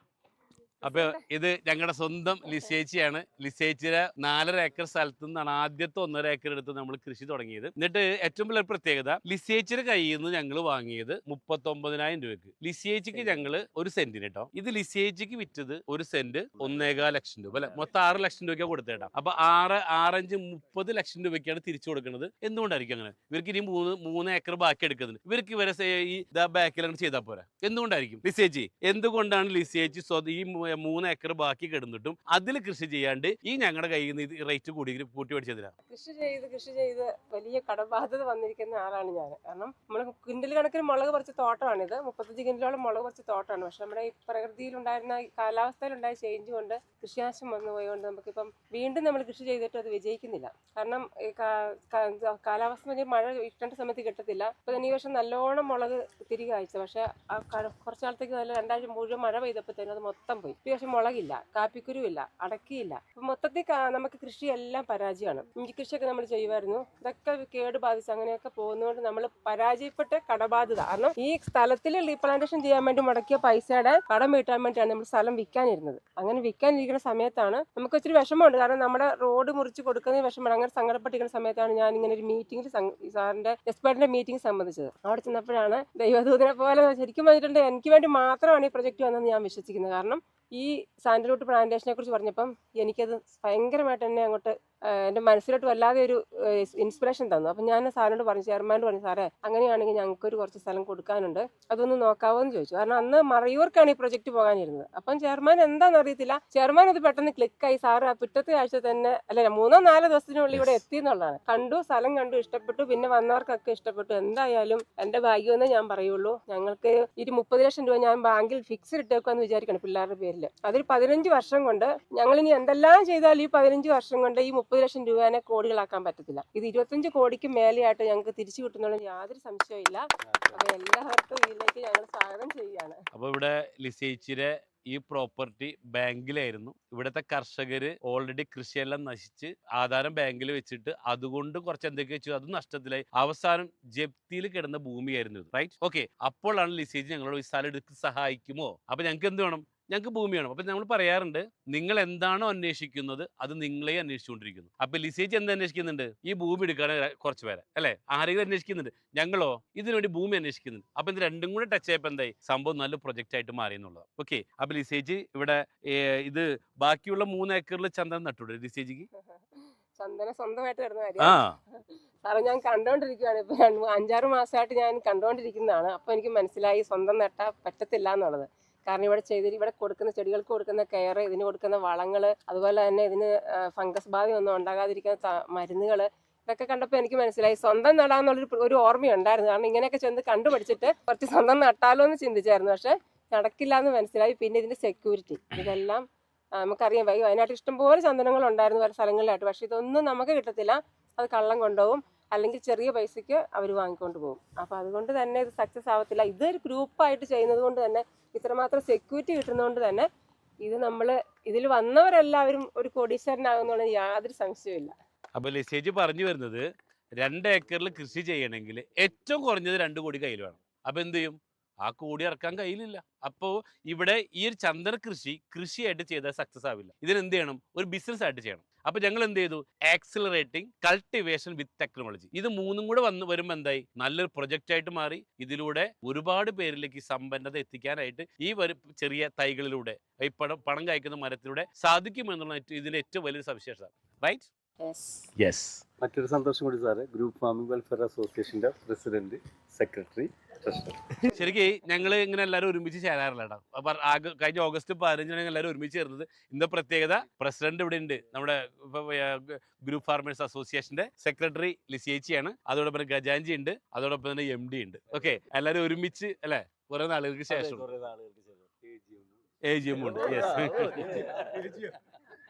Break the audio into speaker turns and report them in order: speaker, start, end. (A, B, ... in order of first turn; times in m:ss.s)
0:00.8-0:35.7 A
0:00.8-0:01.2 B
0:35.9-2:13.0 B
2:13.1-2:49.1 A
2:49.2-3:16.0 B
2:51.2-2:51.5 A
3:16.6-3:30.1 B
3:30.6-3:34.9 B
3:35.4-3:36.6 A
3:37.2-4:04.5 A
4:04.8-4:05.3 B
4:05.4-4:05.8 A
4:06.0-4:11.2 C
4:11.2-4:27.9 A
4:27.5-4:29.4 C
4:29.6-4:31.3 A
4:29.9-4:31.9 C